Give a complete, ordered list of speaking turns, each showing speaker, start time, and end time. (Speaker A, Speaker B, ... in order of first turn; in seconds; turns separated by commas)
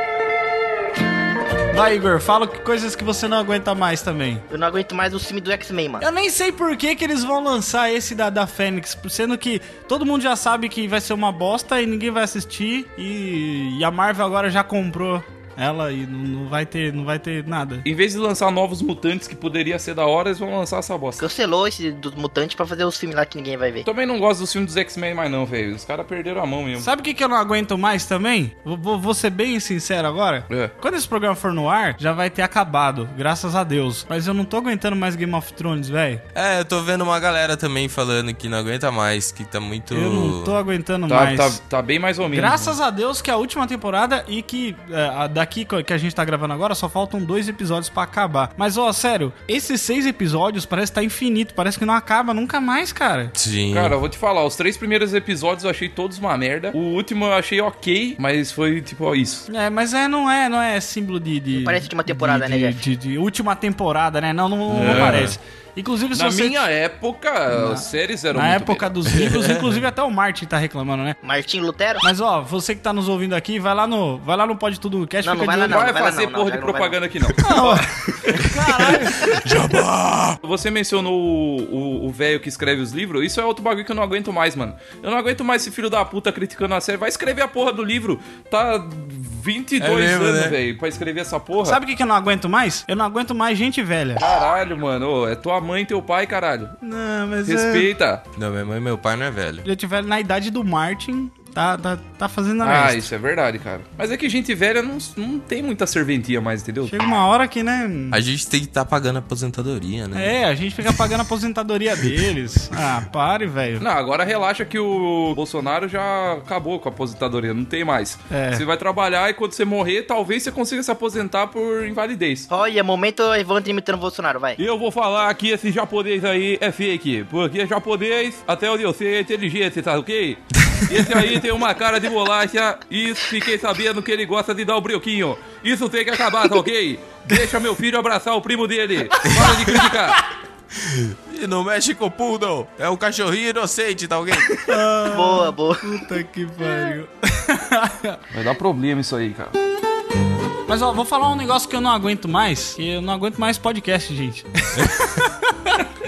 Speaker A: 1.7-4.4, Speaker B: 4.5-6.0, Speaker A: 6.0-17.9, Speaker C: 17.9-21.3, Speaker B: 21.2-23.9, Speaker C: 23.9-26.9, Speaker A: 26.8-36.2, Speaker D: 36.3-40.6, Speaker A: 39.9-41.6, Speaker C: 41.1-42.8, Speaker A: 42.3-53.3, Speaker D: 53.3-54.0, Speaker C: 53.7-59.5, Speaker A: 59.5-66.6, Speaker B: 61.5-62.8, Speaker D: 64.7-65.4, Speaker C: 64.7-65.3, Speaker C: 66.1-69.0, Speaker A: 67.5-71.2, Speaker D: 69.0-69.8, Speaker B: 71.2-72.0, Speaker A: 72.0-75.8, Speaker B: 75.2-77.8, Speaker C: 75.7-78.5, Speaker A: 77.4-79.4, Speaker D: 79.0-80.4, Speaker C: 80.4-91.8, Speaker D: 89.8-90.6, Speaker A: 91.6-94.2, Speaker C: 94.2-96.8, Speaker A: 96.8-97.9, Speaker C: 97.5-98.2, Speaker D: 98.3-99.7, Speaker A: 99.7-103.1, Speaker C: 102.6-106.9, Speaker A: 106.9-108.2, Speaker D: 108.1-110.3, Speaker A: 110.2-113.8, Speaker C: 113.8-122.5, Speaker A: 118.3-118.6, Speaker B: 122.5-124.6, Speaker C: 124.6-140.2, Speaker A: 139.2-139.8, Speaker D: 139.3-139.7, Speaker D: 140.7-144.5, Speaker A: 144.7-148.2, Speaker B: 145.1-145.9, Speaker C: 148.3-149.5, Speaker A: 150.7-155.8